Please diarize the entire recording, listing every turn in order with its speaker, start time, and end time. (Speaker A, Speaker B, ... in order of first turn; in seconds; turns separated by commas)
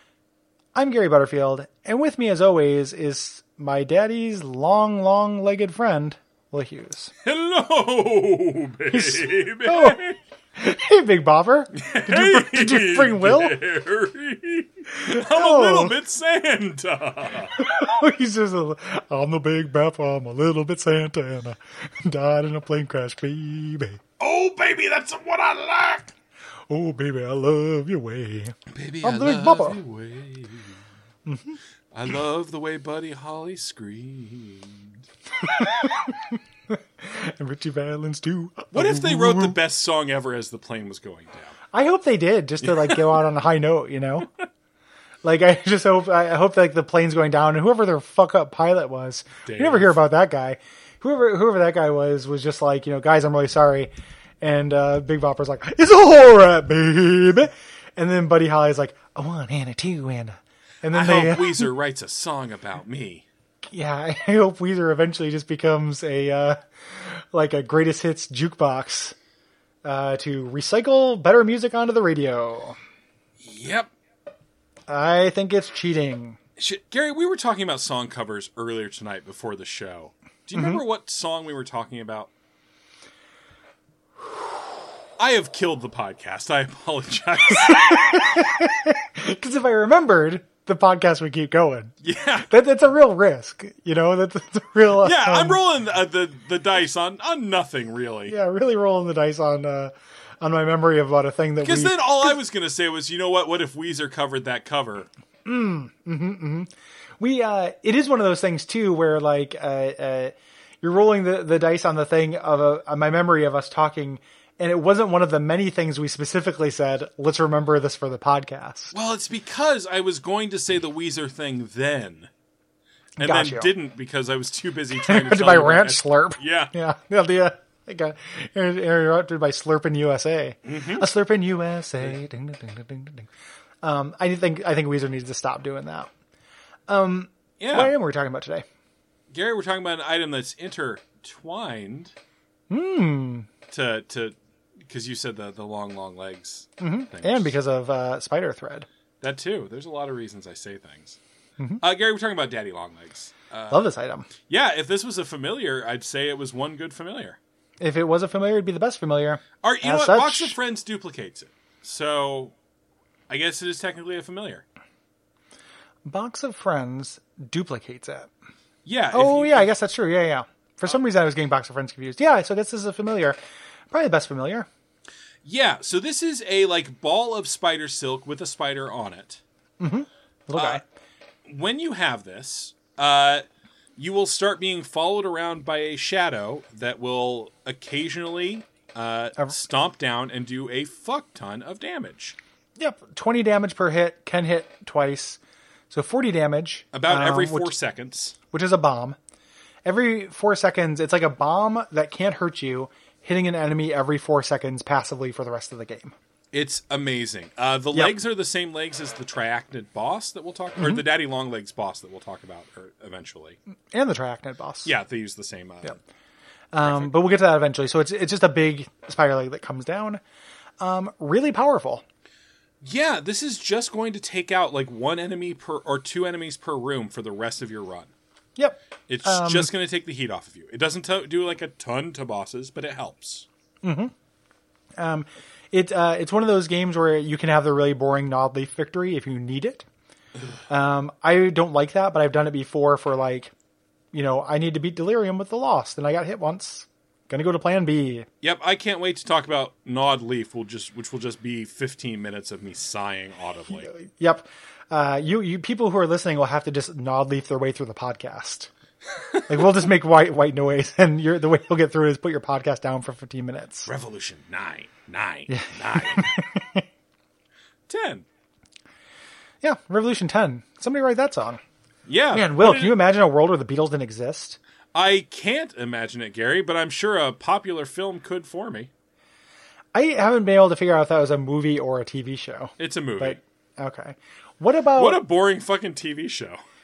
Speaker A: 0.8-7.1, Speaker B: 7.2-10.2, Speaker A: 8.9-10.0, Speaker A: 10.6-13.6, Speaker B: 11.7-17.6, Speaker A: 15.0-15.9, Speaker A: 17.6-24.0, Speaker B: 24.2-26.1, Speaker A: 26.7-29.8, Speaker B: 28.7-30.8, Speaker A: 31.2-31.6, Speaker B: 31.9-35.0, Speaker A: 35.4-36.4, Speaker A: 37.0-39.6, Speaker B: 38.7-41.5, Speaker A: 41.7-44.3, Speaker B: 42.6-43.2, Speaker A: 45.2-61.7, Speaker B: 49.5-49.9, Speaker B: 60.9-63.2, Speaker A: 63.7-69.1, Speaker A: 69.8-72.8, Speaker B: 73.4-73.9, Speaker A: 74.9-76.4, Speaker B: 76.6-82.3, Speaker A: 80.5-80.8, Speaker B: 85.2-88.2, Speaker A: 87.6-91.9, Speaker B: 92.0-92.5, Speaker A: 92.5-95.6, Speaker B: 95.0-98.3, Speaker A: 98.3-102.4, Speaker B: 101.6-105.1, Speaker A: 105.5-118.9, Speaker B: 118.9-122.3, Speaker A: 123.2-123.7, Speaker B: 123.2-126.7, Speaker A: 124.9-133.3, Speaker B: 130.6-131.1, Speaker A: 133.8-136.1, Speaker A: 136.9-138.6, Speaker B: 137.6-137.9, Speaker B: 139.3-142.1, Speaker A: 142.7-143.5, Speaker B: 143.7-144.3, Speaker B: 144.9-147.5, Speaker A: 146.8-148.9, Speaker B: 149.2-151.2, Speaker B: 151.8-153.8, Speaker A: 153.7-154.3, Speaker B: 154.5-157.4, Speaker A: 157.8-160.6, Speaker B: 159.6-162.5, Speaker B: 163.3-164.6, Speaker A: 166.0-168.3, Speaker B: 168.8-169.7, Speaker A: 169.1-173.4, Speaker A: 173.9-174.7, Speaker B: 175.4-179.4, Speaker A: 179.8-180.8, Speaker B: 180.5-180.8, Speaker B: 181.4-183.4, Speaker B: 184.0-192.3, Speaker A: 192.8-195.4, Speaker A: 195.9-197.7, Speaker B: 196.9-198.3, Speaker A: 198.5-199.2, Speaker A: 199.8-206.1, Speaker B: 206.5-213.6, Speaker A: 213.9-214.9, Speaker B: 214.8-216.0, Speaker A: 216.7-220.2, Speaker B: 216.8-217.1, Speaker A: 220.8-222.0, Speaker B: 222.8-228.1, Speaker A: 228.6-229.7, Speaker B: 229.1-233.4, Speaker A: 233.8-234.1, Speaker A: 235.0-239.8, Speaker A: 240.7-243.5, Speaker A: 244.1-248.3, Speaker B: 248.4-253.9, Speaker A: 253.7-258.7, Speaker A: 259.5-263.9, Speaker B: 263.9-266.3, Speaker A: 265.5-266.8, Speaker B: 267.9-268.2, Speaker A: 269.6-271.6, Speaker B: 272.1-272.9, Speaker A: 272.3-274.6, Speaker B: 274.9-278.9, Speaker A: 279.9-285.2, Speaker B: 282.8-283.4, Speaker B: 284.9-286.6